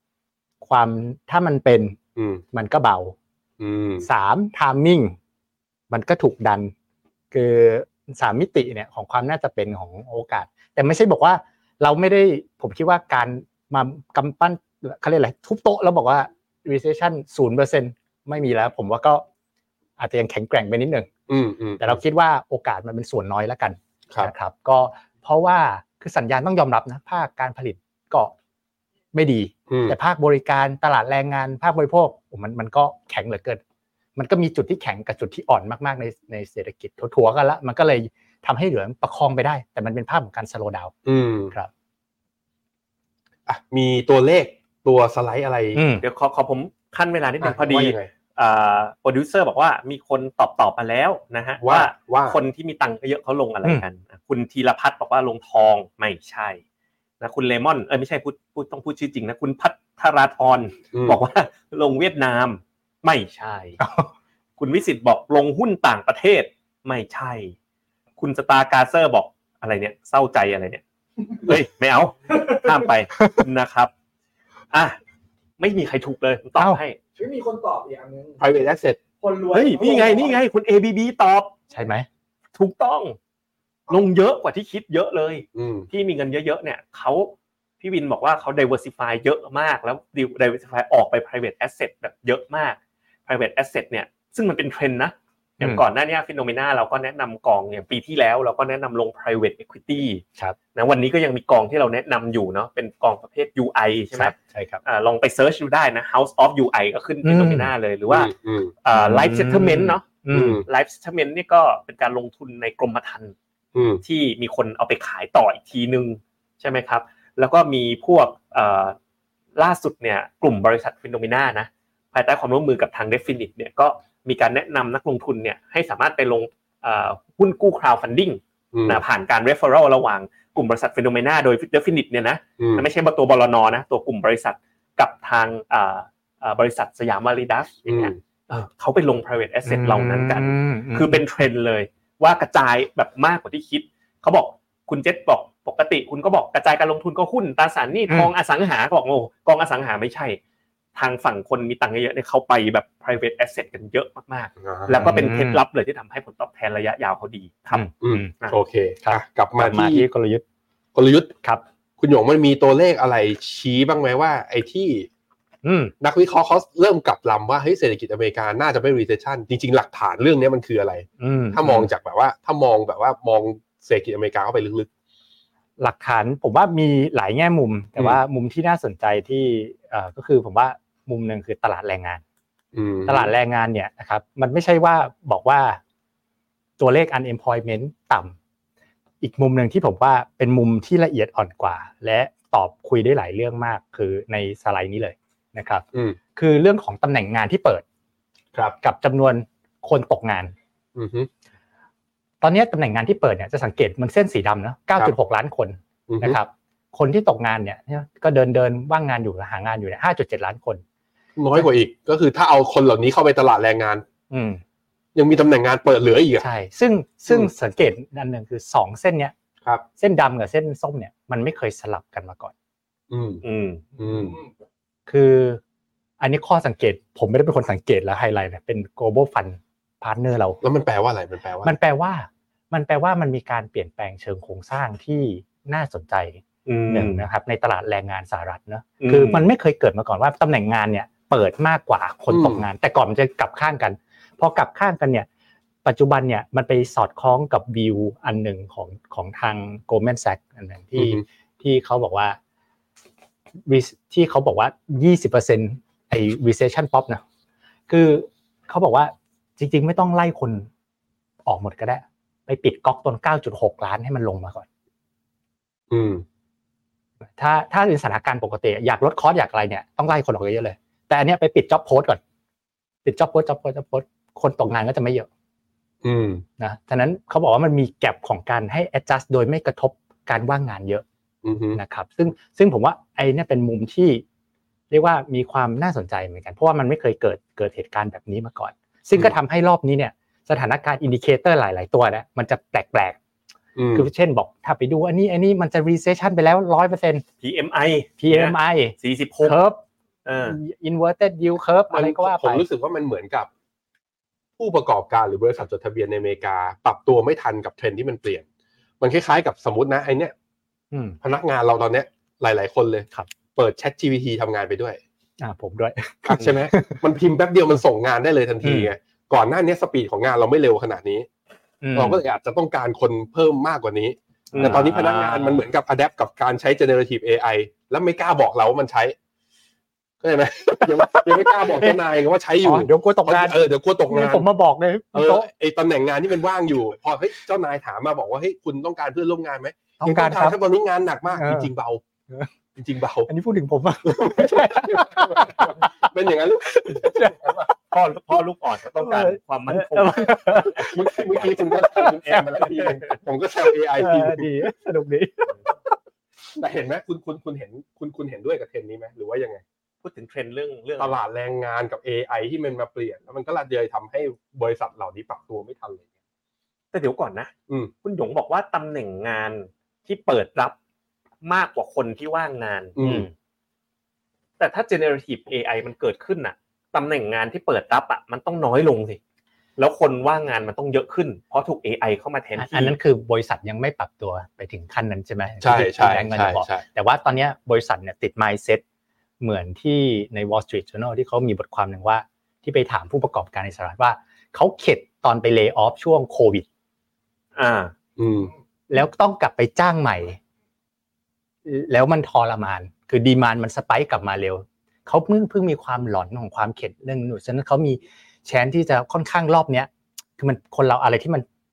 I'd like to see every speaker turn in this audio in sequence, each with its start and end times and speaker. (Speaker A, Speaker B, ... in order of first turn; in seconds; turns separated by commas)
Speaker A: 0.6-2.0, Speaker B: 2.2-2.4, Speaker A: 2.5-3.1, Speaker B: 3.6-4.1, Speaker A: 4.0-5.2, Speaker A: 5.9-6.7, Speaker A: 7.3-19.2, Speaker A: 20.0-21.1, Speaker B: 21.3-22.0, Speaker A: 21.8-28.3, Speaker A: 29.1-33.6, Speaker B: 29.7-30.0, Speaker A: 34.2-40.9, Speaker B: 41.1-41.5, Speaker B: 43.5-45.8, Speaker A: 45.7-46.0, Speaker C: 46.0-56.6, Speaker B: 47.4-48.1, Speaker B: 51.6-52.4, Speaker C: 57.2-63.8, Speaker B: 60.9-61.2, Speaker A: 63.8-64.1, Speaker C: 64.6-67.5, Speaker C: 68.2-70.8, Speaker C: 71.4-73.9, Speaker C: 74.7-75.0, Speaker C: 75.6-77.0, Speaker D: 77.2-78.5, Speaker B: 78.4-79.0, Speaker D: 79.2-80.4, Speaker C: 79.5-81.6, Speaker A: 81.7-82.1, Speaker C: 82.5-83.2, Speaker C: 83.9-100.2, Speaker B: 85.5-85.9, Speaker C: 100.8-108.3, Speaker A: 104.1-104.8, Speaker A: 107.2-107.7, Speaker B: 108.1-108.7, Speaker C: 108.8-113.3, Speaker A: 108.9-110.6, Speaker B: 110.3-110.7, Speaker B: 113.8-114.0, Speaker C: 114.0-119.0, Speaker C: 119.6-150.4, Speaker B: 128.7-129.0, Speaker B: 132.6-132.9, Speaker B: 137.9-138.2, Speaker A: 139.7-141.2, Speaker C: 150.9-157.9, Speaker B: 154.6-155.1, Speaker A: 155.0-155.6, Speaker A: 157.7-158.3, Speaker B: 158.0-160.1, Speaker A: 159.0-160.4, Speaker B: 160.9-161.3, Speaker B: 162.0-165.1, Speaker A: 165.6-165.9, Speaker B: 166.0-174.9, Speaker A: 171.2-171.9, Speaker A: 175.8-182.2, Speaker B: 182.7-183.3, Speaker A: 183.1-185.8, Speaker A: 186.8-188.3, Speaker A: 189.2-195.8, Speaker A: 196.4-197.8, Speaker A: 198.8-200.5, Speaker B: 201.0-201.3, Speaker A: 202.4-210.8, Speaker B: 206.1-206.4, Speaker B: 211.4-214.1, Speaker A: 214.3-214.6, Speaker B: 215.2-216.5, Speaker A: 216.4-219.3, Speaker A: 220.0-222.5, Speaker B: 223.1-223.4, Speaker C: 223.4-223.8, Speaker B: 224.0-224.4, Speaker A: 225.1-225.6, Speaker A: 226.2-230.6, Speaker B: 230.6-231.8, Speaker A: 231.6-245.3, Speaker C: 236.7-237.3, Speaker C: 239.0-239.5, Speaker B: 242.3-242.7, Speaker A: 245.8-252.4, Speaker B: 251.0-251.2, Speaker A: 253.7-257.2, Speaker A: 257.9-260.7, Speaker A: 261.5-264.7, Speaker B: 265.9-266.2, Speaker A: 267.4-272.2, Speaker A: 273.1-275.3, Speaker B: 276.0-276.4, Speaker A: 276.6-281.1, Speaker B: 281.4-281.8, Speaker A: 281.8-284.2, Speaker A: 284.9-293.2, Speaker B: 293.8-294.1, Speaker A: 293.9-297.2, Speaker C: 297.4-299.6, Speaker A: 298.2-299.8, Speaker C: 300.3-300.6, Speaker A: 300.4-302.6, Speaker B: 301.9-303.5, Speaker B: 304.6-308.4, Speaker B: 309.0-310.3, Speaker A: 310.9-311.2, Speaker B: 311.2-315.0, Speaker A: 315.4-317.0, Speaker B: 316.2-321.3, Speaker A: 318.6-318.9, Speaker A: 321.8-322.2, Speaker B: 321.9-329.2, Speaker C: 324.5-324.9, Speaker A: 324.5-325.6, Speaker B: 330.2-334.5, Speaker A: 330.8-332.0, Speaker A: 332.6-335.5, Speaker B: 335.1-342.0, Speaker A: 340.0-340.6, Speaker A: 341.3-341.7, Speaker B: 342.8-343.3, Speaker A: 343.3-346.1, Speaker B: 344.1-347.7, Speaker A: 346.7-347.6, Speaker C: 347.9-350.9, Speaker A: 349.0-353.0, Speaker B: 350.8-354.5, Speaker A: 353.9-355.6, Speaker B: 356.6-359.6, Speaker C: 360.0-361.1, Speaker B: 361.0-366.1, Speaker C: 366.9-367.5, Speaker C: 368.0-370.8, Speaker C: 371.4-373.0, Speaker B: 373.0-373.3, Speaker A: 373.0-373.3, Speaker C: 374.6-379.2, Speaker C: 379.8-383.0, Speaker A: 382.6-388.8, Speaker B: 385.6-386.8, Speaker A: 389.4-396.7, Speaker C: 397.6-397.9, Speaker B: 398.2-398.5, Speaker A: 398.9-400.4, Speaker A: 401.7-411.4